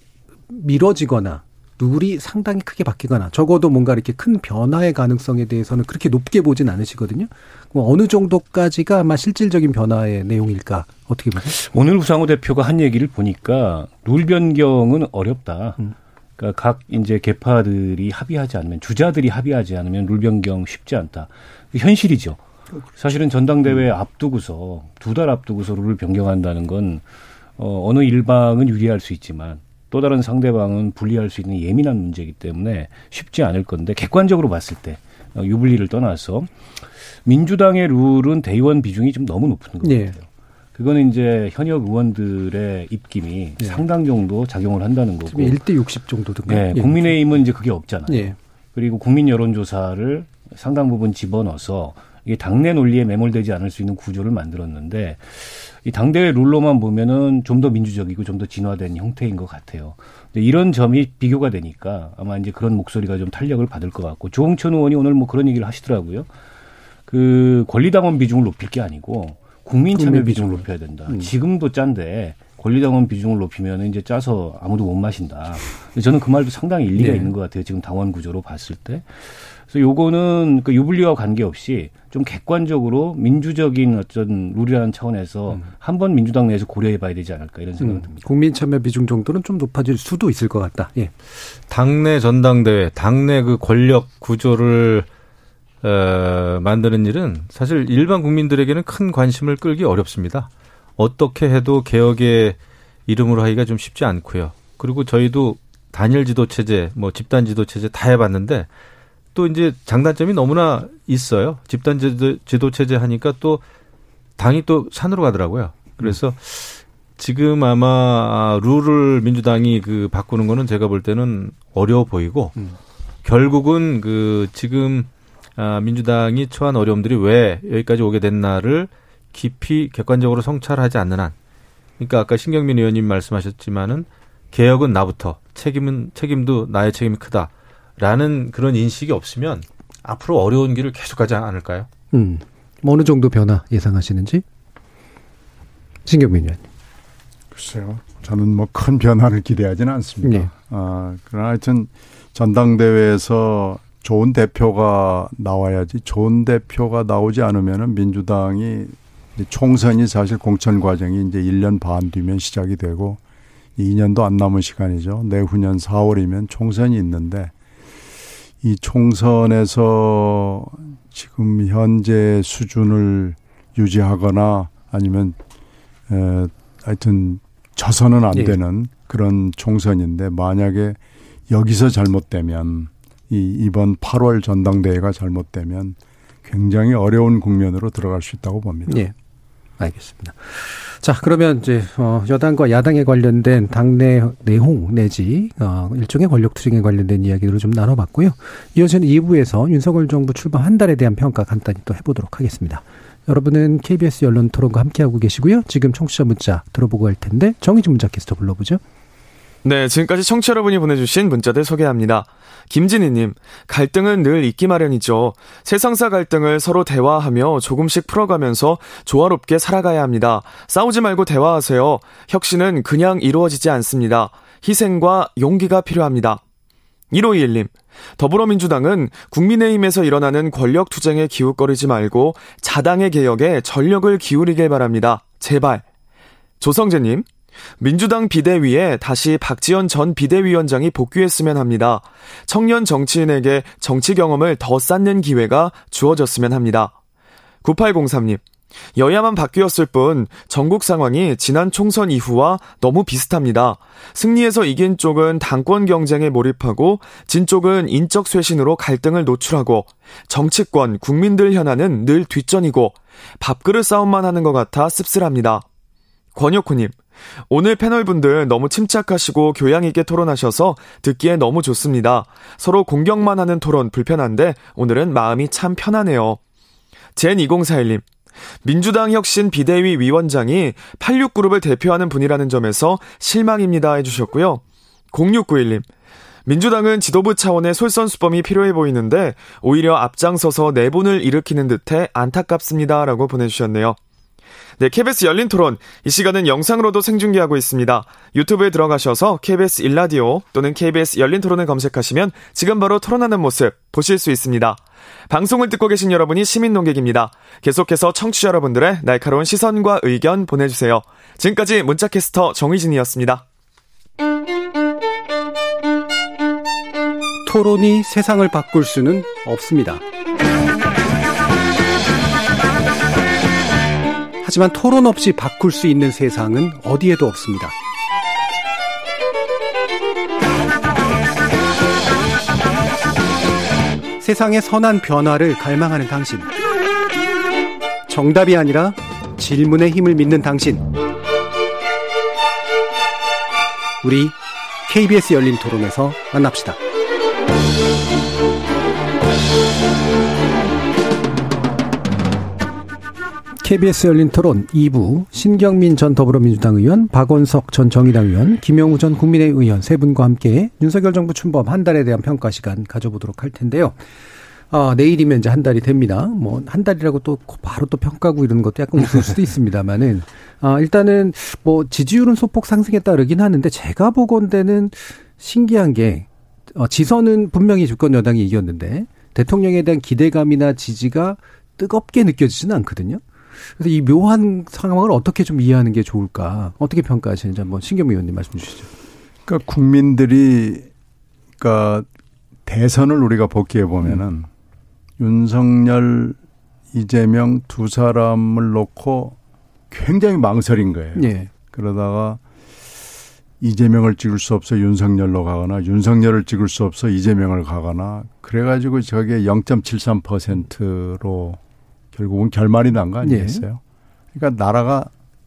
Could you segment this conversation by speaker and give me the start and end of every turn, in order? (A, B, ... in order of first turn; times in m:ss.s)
0:00.5-0:11.6 A
0:11.4-0:15.8 B
0:16.4-0:22.4 B
0:22.9-0:27.0 B
0:27.6-0:36.5 B
0:37.2-0:45.6 B
0:39.8-0:40.2 A
0:45.3-0:47.2 A
0:46.5-1:06.3 B
0:48.1-0:48.4 A
1:07.1-1:28.3 B
1:10.0-1:11.3 A
1:17.0-1:17.3 A
1:27.8-1:31.1 A
1:31.7-1:35.1 C
1:35.8-1:48.7 C
1:49.4-1:53.6 C
1:54.4-2:02.6 C
2:03.2-2:11.4 C
2:12.0-2:21.9 C
2:22.1-2:24.4 A
2:26.1-2:26.6 A
2:27.5-2:43.2 D
2:30.2-2:30.5 A
2:43.8-2:47.5 D
2:48.6-2:55.4 D
2:56.1-3:09.0 D
3:08.9-3:09.2 A
3:09.8-3:28.8 A
3:29.6-3:46.4 E
3:47.1-3:55.8 E
3:56.6-3:57.3 E
3:57.8-4:07.0 E
4:07.6-4:08.4 E
4:09.0-4:25.6 E
4:26.4-4:27.0 E
4:27.5-4:36.4 E
4:37.2-4:38.1 E
4:38.6-4:45.9 E
4:46.5-4:54.0 E
4:54.8-5:13.4 E
5:17.4-5:20.0 A
5:24.4-5:27.8 A
5:34.2-5:36.5 A
5:38.1-5:40.9 A
5:44.0-5:46.8 A
5:53.6-6:04.0 A
6:04.7-6:23.2 A
6:23.8-6:28.9 A
6:29.5-6:30.9 D
6:31.6-6:32.1 D
6:32.7-6:34.5 D
6:35.2-6:36.4 D
6:36.9-6:39.4 D
6:39.9-6:42.4 D
6:41.2-6:41.5 A
6:43.6-6:51.6 D
6:52.1-6:53.8 D
6:53.2-6:53.6 A
6:54.3-6:55.1 D